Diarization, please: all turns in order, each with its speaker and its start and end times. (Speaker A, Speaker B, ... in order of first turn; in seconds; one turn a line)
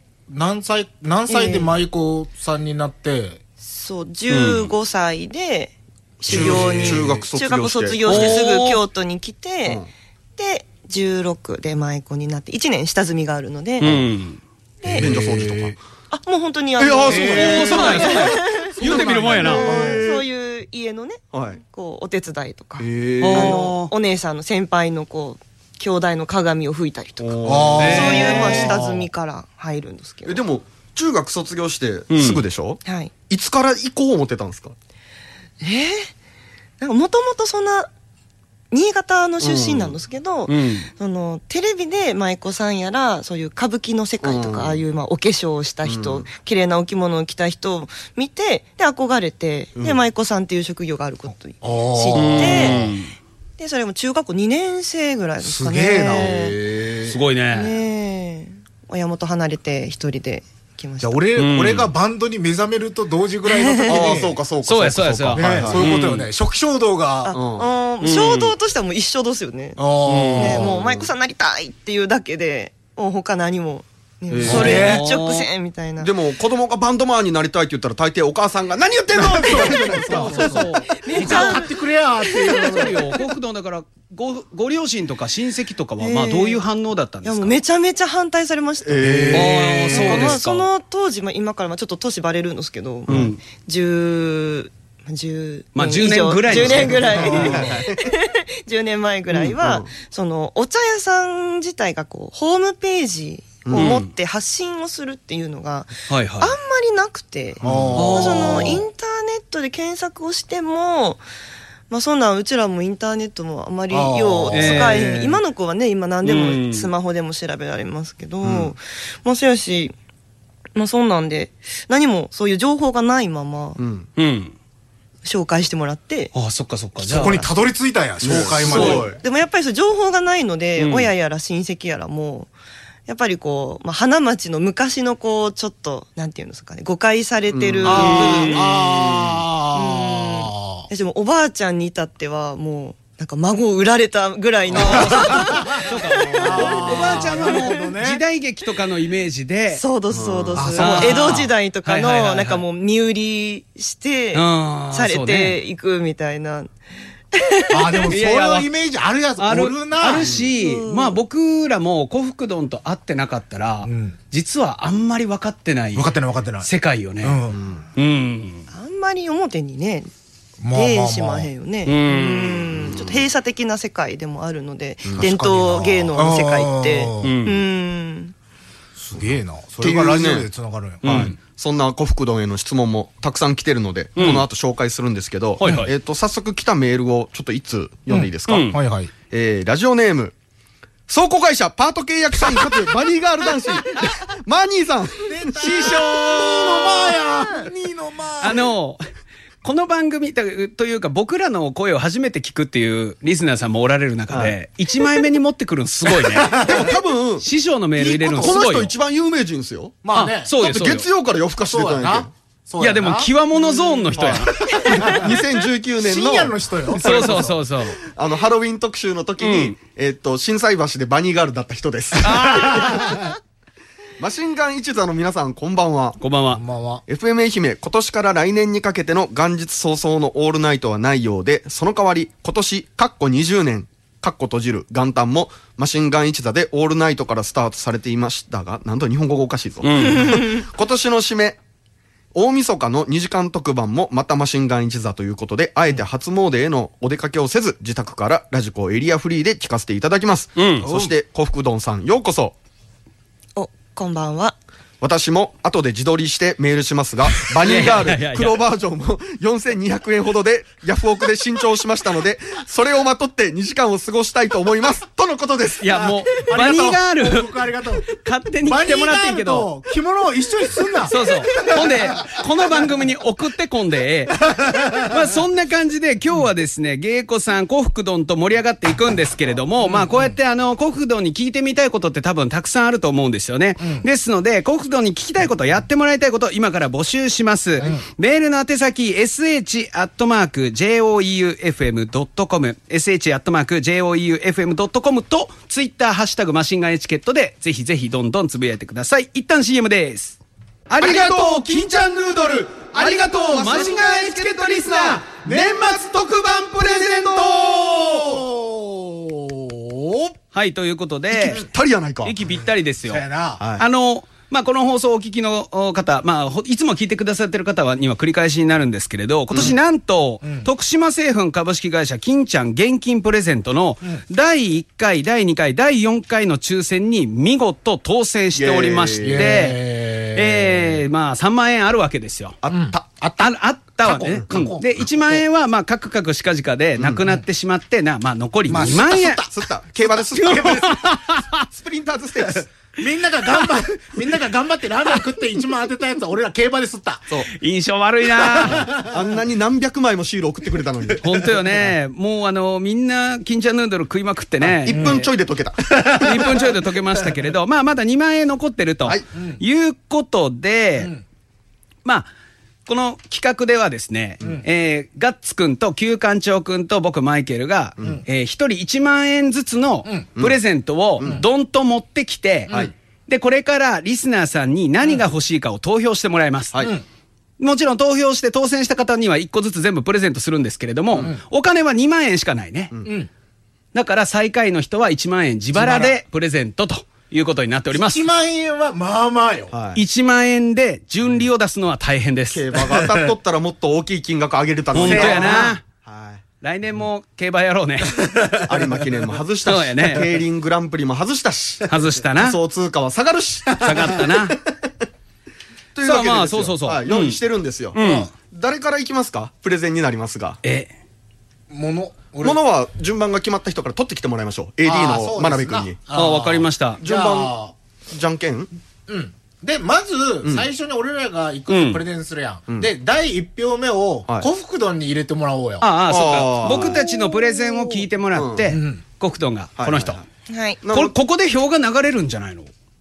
Speaker A: 0.3-3.4
Speaker B: 1.3-1.7
Speaker B: 3.6-9.8
Speaker C: 4.3-4.7
Speaker A: 6.2-7.2
Speaker D: 6.3-8.4
Speaker C: 8.1-8.8
Speaker B: 10.4-14.0
Speaker C: 13.8-14.4
Speaker B: 14.8-15.2
Speaker A: 14.8-15.8
Speaker D: 14.9-15.8
Speaker B: 16.1-18.8
Speaker D: 16.8-20.2
Speaker A: 17.1-18.2
Speaker C: 17.2-19.6
Speaker B: 19.3-30.4
Speaker A: 19.6-19.9
Speaker D: 21.3-21.6
Speaker D: 22.8-23.7
Speaker C: 23.2-23.9
Speaker D: 27.2-28.3
Speaker A: 27.4-29.1
Speaker C: 27.8-28.7
Speaker D: 30.2-34.8
Speaker C: 32.1-32.4
Speaker B: 32.9-33.1
Speaker B: 35.6-36.1
Speaker B: 36.8-37.9
Speaker B: 38.7-52.9
Speaker D: 39.4-40.0
Speaker C: 40.5-40.9
Speaker D: 44.2-44.8
Speaker D: 45.8-46.3
Speaker D: 49.8-50.0
Speaker A: 51.6-52.8
Speaker C: 52.2-53.1
Speaker D: 52.6-52.9
Speaker B: 53.6-56.6
Speaker A: 55.4-56.3
Speaker D: 56.1-57.2
Speaker C: 57.0-57.8
Speaker B: 57.5-61.2
Speaker A: 61.0-64.4
Speaker C: 61.4-61.9
Speaker B: 63.5-64.2
Speaker D: 63.9-65.9
Speaker C: 64.6-66.3
Speaker A: 65.3-67.3
Speaker B: 67.2-69.8
Speaker D: 67.3-67.7
Speaker C: 68.0-68.5
Speaker A: 69.8-70.7
Speaker C: 70.1-70.6
Speaker B: 70.3-76.1
Speaker D: 70.5-71.1
Speaker D: 74.3-75.0
Speaker A: 74.4-75.1
Speaker C: 74.5-75.5
Speaker D: 76.0-80.6
Speaker A: 79.1-83.2
Speaker C: 79.4-81.7
Speaker B: 80.9-83.2
Speaker C: 82.5-87.5
Speaker B: 86.0-86.6
Speaker B: 87.2-111.2
Speaker D: 88.8-89.9
Speaker A: 89.0-90.4
Speaker C: 89.3-90.7
Speaker C: 93.1-93.4
Speaker C: 95.8-97.7
Speaker D: 96.5-98.1
Speaker A: 97.1-97.8
Speaker D: 99.6-99.9
Speaker D: 103.7-104.0
Speaker C: 103.8-104.1
Speaker C: 106.1-106.5
Speaker D: 107.6-108.1
Speaker A: 107.6-108.7
Speaker C: 108.0-108.8
Speaker B: 111.9-119.9
Speaker A: 113.9-115.2
Speaker C: 114.5-115.4
Speaker C: 116.2-116.9
Speaker D: 118.4-118.7
Speaker B: 120.8-123.8
Speaker D: 123.8-124.1
Speaker C: 124.2-124.5
Speaker B: 125.2-126.3
Speaker C: 126.3-127.4
Speaker A: 127.0-129.1
Speaker B: 127.1-127.5
Speaker D: 128.2-129.2
Speaker C: 128.6-129.1
Speaker B: 128.7-132.5
Speaker C: 130.8-131.1
Speaker B: 133.1-138.7
Speaker D: 137.5-139.4
Speaker A: 137.9-140.9
Speaker C: 137.9-138.8
Speaker B: 139.7-147.7
Speaker D: 144.7-145.0
Speaker C: 144.8-149.8
Speaker A: 144.8-148.2
Speaker B: 149.7-156.7
Speaker D: 150.1-150.8
Speaker A: 150.6-151.5
Speaker C: 150.8-152.6
Speaker C: 154.3-155.6
Speaker B: 157.3-158.1
Speaker A: 157.7-160.3
Speaker C: 158.1-158.7
Speaker C: 159.4-167.4
Speaker D: 160.2-160.5
Speaker B: 160.6-161.2
Speaker A: 163.8-164.2
Speaker A: 165.9-166.7
Speaker A: 167.2-167.6
Speaker D: 167.5-167.9
Speaker C: 167.9-168.7
Speaker B: 168.7-170.1
Speaker A: 170.6-171.5
Speaker B: 170.7-178.3
Speaker C: 171.9-172.7
Speaker D: 172.7-173.2
Speaker A: 175.2-177.4
Speaker C: 177.2-177.6
Speaker A: 179.0-181.3
Speaker D: 179.8-180.5
Speaker C: 181.0-181.3
Speaker D: 181.0-188.7
Speaker C: 184.2-184.5
Speaker C: 185.6-185.9
Speaker A: 185.6-185.9
Speaker A: 188.1-189.1
Speaker C: 188.5-188.8
Speaker D: 189.3-190.3
Speaker D: 191.1-197.7
Speaker A: 195.3-198.7
Speaker C: 195.8-196.2
Speaker C: 198.4-199.0
Speaker C: 199.6-206.9
Speaker A: 206.2-206.9
Speaker D: 206.6-207.5
Speaker C: 207.4-208.9
Speaker A: 208.0-208.7
Speaker D: 208.3-210.0
Speaker A: 210.0-210.8
Speaker C: 210.1-211.1
Speaker D: 210.6-212.3
Speaker A: 211.6-213.3
Speaker C: 212.8-215.0
Speaker B: 213.7-214.1
Speaker D: 214.1-223.1
Speaker A: 214.2-215.4
Speaker B: 214.6-215.2
Speaker A: 216.0-217.6
Speaker C: 217.0-218.0
Speaker C: 219.4-219.8
Speaker C: 222.2-223.1
Speaker A: 222.2-223.3
Speaker D: 224.2-226.2
Speaker C: 226.2-226.6
Speaker A: 226.5-227.0
Speaker D: 227.1-241.6
Speaker C: 239.8-240.5
Speaker D: 242.3-252.6
Speaker C: 250.6-251.1
Speaker B: 253.6-254.6
Speaker D: 255.0-266.0
Speaker C: 257.5-258.6
Speaker C: 265.8-269.7
Speaker A: 266.1-268.1
Speaker A: 268.6-272.4
Speaker C: 271.1-301.9
Speaker A: 274.5-275.2
Speaker A: 279.8-280.4
Speaker D: 301.0-308.4
Speaker C: 302.8-305.3
Speaker A: 305.5-305.8
Speaker A: 307.6-310.4
Speaker C: 310.5-311.7
Speaker A: 311.4-311.7
Speaker D: 311.4-312.4
Speaker C: 312.2-313.2
Speaker A: 312.5-313.6
Speaker D: 313.6-313.9
Speaker C: 313.8-332.6
Speaker A: 320.4-320.7
Speaker D: 328.6-329.6
Speaker A: 329.2-331.0
Speaker D: 332.6-333.0
Speaker A: 332.7-333.5
Speaker C: 333.4-339.4
Speaker A: 334.0-335.4
Speaker A: 338.7-339.5
Speaker D: 339.5-341.0
Speaker A: 340.1-341.0
Speaker C: 340.3-341.6
Speaker D: 341.7-342.7
Speaker A: 343.0-347.3
Speaker C: 347.5-348.9
Speaker A: 348.4-349.3
Speaker D: 348.9-351.5
Speaker C: 351.2-355.3
Speaker D: 354.6-356.7
Speaker A: 354.9-355.2
Speaker A: 355.9-356.6
Speaker C: 356.0-361.1
Speaker A: 359.4-359.6
Speaker C: 362.9-376.8
Speaker D: 371.2-371.4
Speaker A: 376.8-377.1
Speaker C: 377.6-382.9
Speaker C: 383.9-388.2
Speaker A: 385.8-386.1
Speaker A: 387.9-389.7
Speaker D: 389.7-390.0
Speaker C: 389.9-392.7
Speaker D: 392.5-396.4
Speaker A: 392.8-393.3
Speaker C: 394.9-395.8
Speaker A: 395.0-395.8
Speaker C: 396.6-398.3
Speaker A: 398.1-399.0
Speaker D: 398.6-404.6
Speaker C: 399.6-400.4
Speaker C: 401.9-402.6
Speaker A: 403.8-404.1
Speaker C: 403.8-404.6
Speaker D: 405.9-408.0
Speaker C: 406.0-407.4
Speaker C: 407.9-408.3
Speaker A: 408.0-408.3
Speaker D: 408.5-410.6
Speaker C: 410.6-410.9
Speaker A: 411.7-412.6
Speaker D: 412.4-416.0
Speaker A: 414.8-417.7
Speaker C: 416.1-417.0
Speaker D: 417.0-417.6
Speaker D: 418.1-418.7
Speaker A: 419.1-425.9
Speaker C: 421.7-422.1
Speaker C: 425.8-430.2
Speaker D: 426.1-427.0
Speaker B: 427.3-427.8
Speaker D: 428.3-428.8
Speaker A: 428.7-429.0
Speaker D: 429.8-430.2
Speaker B: 430.5-430.8
Speaker D: 430.8-431.1
Speaker C: 430.9-432.7